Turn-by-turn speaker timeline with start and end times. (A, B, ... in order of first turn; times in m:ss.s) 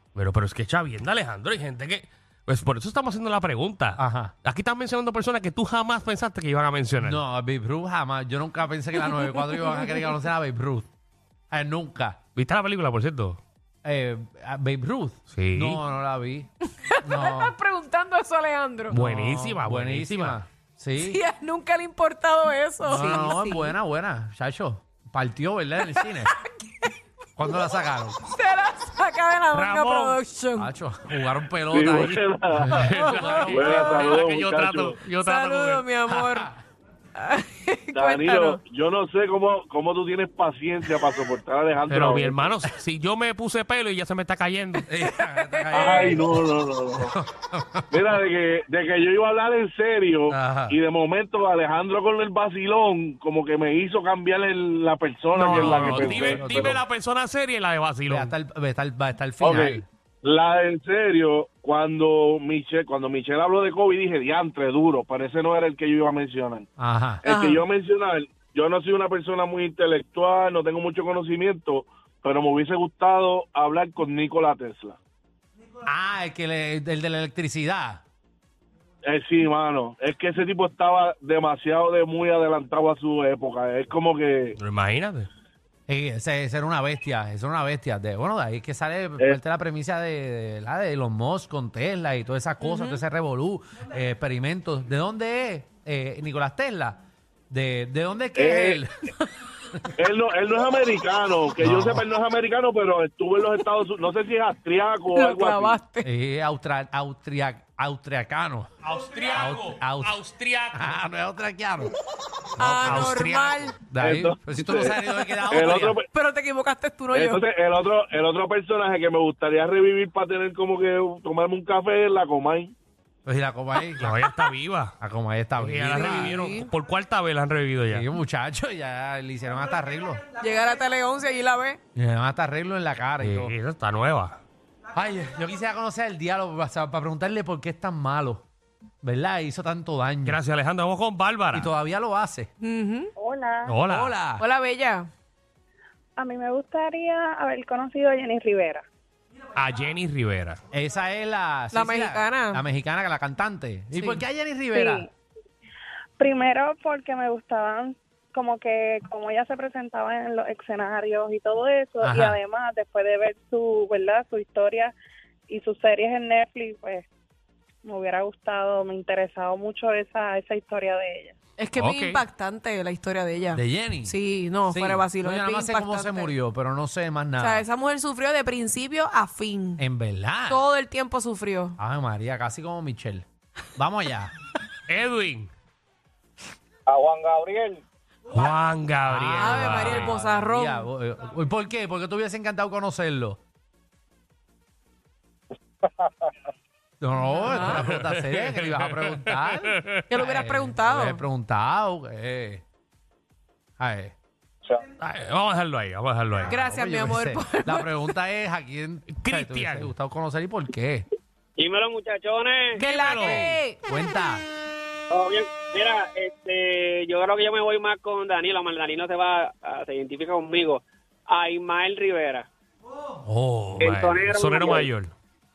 0:00.1-0:07.2 A
0:04.0-0:04.3 B
0:07.0-0:10.9 B
0:09.1-0:09.8 C
0:11.5-0:12.2 B
0:12.4-0:13.4 A
0:13.8-0:16.5 B
0:15.3-0:15.8 A
0:16.8-0:18.9 C
0:17.0-0:17.5 B
0:18.9-0:21.2 B
0:18.9-0:20.4 A
0:21.0-0:23.7 C
0:22.8-0:26.3 B
0:27.4-0:28.2 B
0:28.3-0:30.7 C
0:29.5-0:30.2 A
0:30.6-0:33.9 B
0:31.7-0:32.8 D
0:32.7-0:35.8 A
0:32.9-0:34.2 C
0:33.5-0:35.0 D
0:35.1-0:36.5 C
0:36.1-0:36.6 B
0:37.2-0:38.6 C
0:37.9-0:42.5 D
0:41.8-0:44.9 A
0:44.8-0:46.5 B
0:45.1-0:46.2 C
0:45.7-0:47.1 D
0:47.0-0:47.9 B
0:47.9-0:56.8 D
0:50.3-0:50.8 B
0:55.3-0:58.3 A
0:55.4-0:56.8 B
0:58.1-0:59.8 B
0:59.4-1:06.7 D
1:06.8-1:07.2 B
1:07.2-1:15.0 D
1:07.2-1:07.6 C
1:15.8-1:18.0 B
1:19.0-1:24.6 D
1:24.6-1:25.3 A
1:25.9-1:37.0 B
1:32.6-1:33.0 C
1:37.5-1:38.9 B
1:38.3-1:38.8 D
1:40.0-1:45.8 D
1:41.6-1:42.0 B
1:45.1-1:46.1 C
1:46.0-1:48.7 B
1:48.8-1:50.9 A
1:49.3-1:50.2 B
1:50.7-1:51.9 B
1:52.6-1:53.8 C
1:52.6-1:53.7 A
1:53.9-1:56.0 B
1:54.0-1:56.0 D
1:56.1-1:57.4 C
1:57.1-2:02.7 D
2:03.2-2:04.2 B
2:04.0-2:04.9 A
2:05.0-2:06.6 B
2:05.6-2:08.0 A
2:06.0-2:06.7 C
2:07.9-2:10.3 B
2:10.3-2:11.8 C
2:11.9-2:13.5 B
2:13.2-2:14.4 A
2:14.9-2:18.4 B
2:19.0-2:20.4 B
2:20.2-2:21.7 A
2:21.5-2:22.5 B
2:22.6-2:23.1 C
2:23.2-2:23.6 E
2:23.6-2:24.2 A
2:23.8-2:24.4 B
2:24.4-2:25.1 C
2:26.2-2:28.8 E
2:29.6-2:30.6 A
2:30.7-2:35.0 B
2:31.7-2:32.6 C
2:33.9-2:34.2 C
2:36.2-2:44.9 E
2:42.0-2:42.4 B
2:45.5-2:47.0 E
2:47.8-2:51.3 E
2:51.6-2:56.3 C
2:51.8-2:52.2 A
2:53.5-2:57.6 B
2:57.4-2:59.8 C
2:59.8-3:00.6 B
3:00.5-3:01.8 C
3:01.8-3:04.3 B
3:04.9-3:05.5 A
3:08.3-3:10.2 A
3:09.0-3:13.4 B
3:09.4-3:10.9 C
3:17.0-3:22.6 B
3:17.4-3:17.8 C
3:17.5-3:20.1 A
3:20.1-3:21.2 C
3:23.8-3:24.1 B
3:25.0-3:26.7 A
3:26.4-3:27.9 C
3:26.6-3:31.0 B
3:29.1-3:29.9 A
3:31.6-3:32.8 F
3:32.8-3:33.8 C
3:32.8-3:33.6 A
3:33.8-3:34.4 B
3:35.1-3:42.4 F
3:43.2-3:43.9 B
3:43.8-3:45.1 A
3:43.8-3:44.9 F